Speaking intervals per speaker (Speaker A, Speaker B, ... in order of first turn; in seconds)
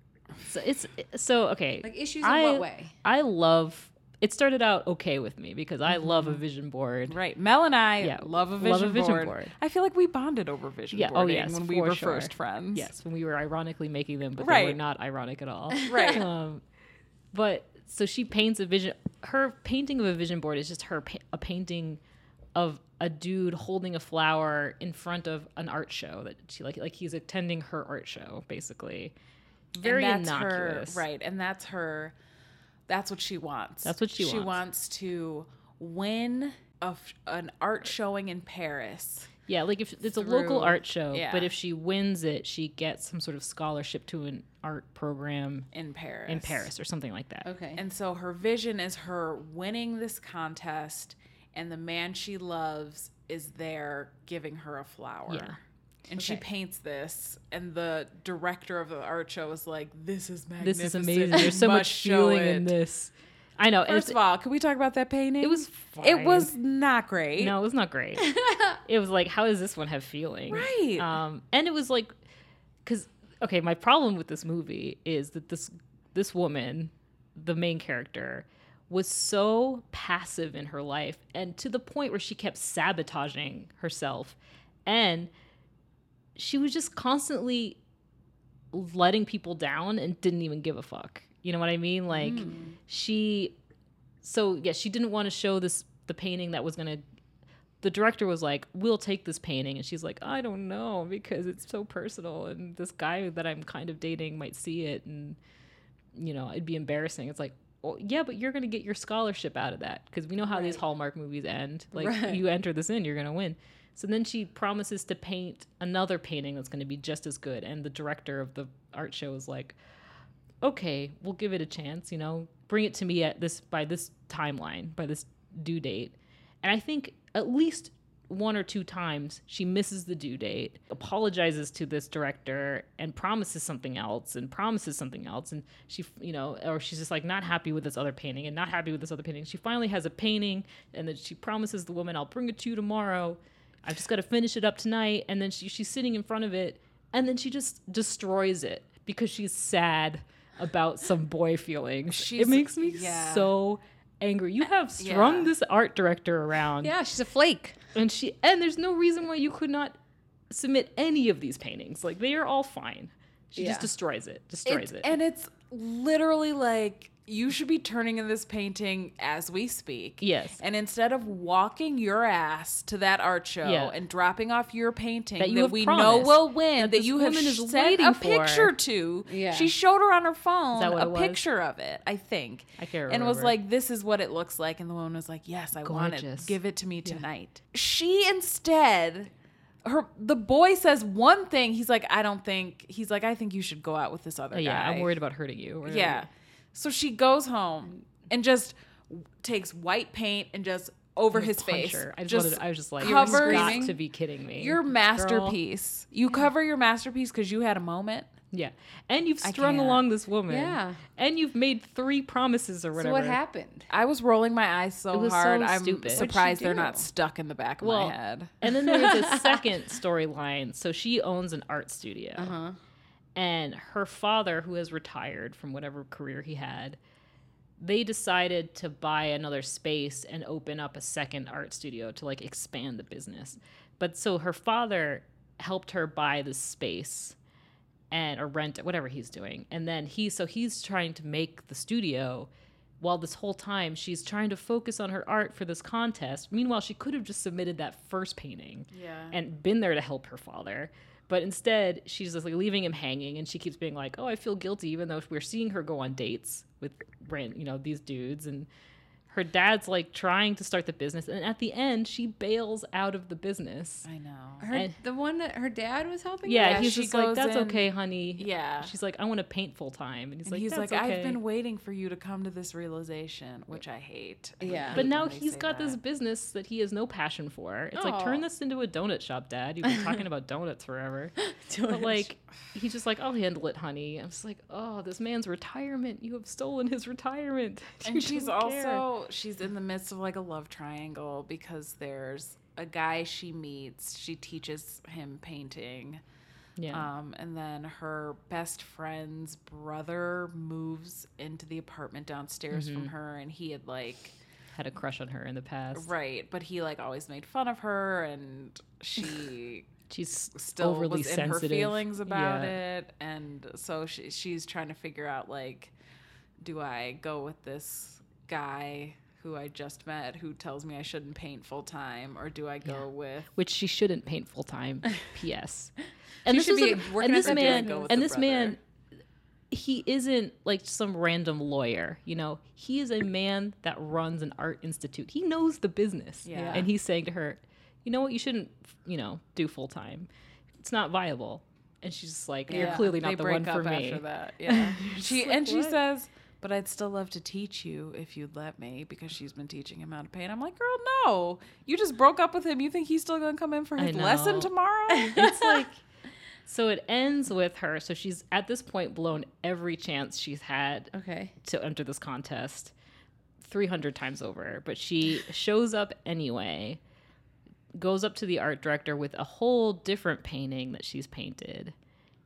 Speaker A: 0.5-7.2, 8.0-9.5, 10.9-16.6, 17.3-22.0, 22.6-29.1, 29.8-31.0, 33.9-34.6, 39.5-45.7, 46.3-47.5, 55.3-55.6, 60.6-64.2, 65.4-66.5, 67.4-72.1, 72.8-85.3, 86.4-87.8, 88.7-93.6, 94.2-97.0, 97.8-105.4, 106.1-119.8, 120.6-156.9, 157.9-159.9, 160.5-165.1, 170.2-170.6, 173.6-173.9, 175.4-178.7, 180.7-181.4, 182.8-183.6, 185.8-187.2, 194.5-196.3, 201.3-205.6, 208.5-213.4, 215.1-216.3, 217.8-222.5, 223.3-227.0, 227.8-237.4, 238.1-258.7, 259.3-264.1, 266.4-271.4, 274.9-289.1, 296.8-297.1, 302.7-303.1, 304.7-306.1, 310.1-312.8, 322.9-328.8, 329.7-340.3, 340.8-346.0, 354.0-354.7, 355.3-356.0, 356.7-362.9, 363.6-367.0, 367.9-371.9
Speaker B: 1.8-2.9, 47.5-47.8, 68.3-68.7, 92.1-92.7, 112.0-112.4, 156.8-157.8, 163.6-163.9, 179.3-179.7, 203.0-203.9, 210.5-211.0, 212.9-213.9, 216.1-217.1, 218.7-219.6, 222.4-222.8, 264.6-266.9, 274.6-275.0, 277.9-278.4, 281.4-282.3, 326.4-328.2, 336.5-336.9, 342.7-343.1, 355.1-355.8, 361.1-361.5
Speaker C: 7.1-12.9, 14.4-14.8, 15.8-16.3, 29.7-32.1, 32.9-39.3, 40.2-41.5, 45.7-46.7, 47.8-62.7, 63.9-67.5, 70.5-71.1, 152.1-153.5, 155.0-155.5, 164.7-189.3, 189.8-195.1, 195.8-203.9, 204.6-208.3, 209.4-210.1, 213.9-218.6, 248.9-249.4, 264.1-264.7, 266.6-268.9, 270.4-276.0, 288.0-296.2, 296.9-304.4, 305.9-309.9, 310.6-315.9, 316.6-323.5, 327.4-328.8, 336.4-336.9, 342.7-355.4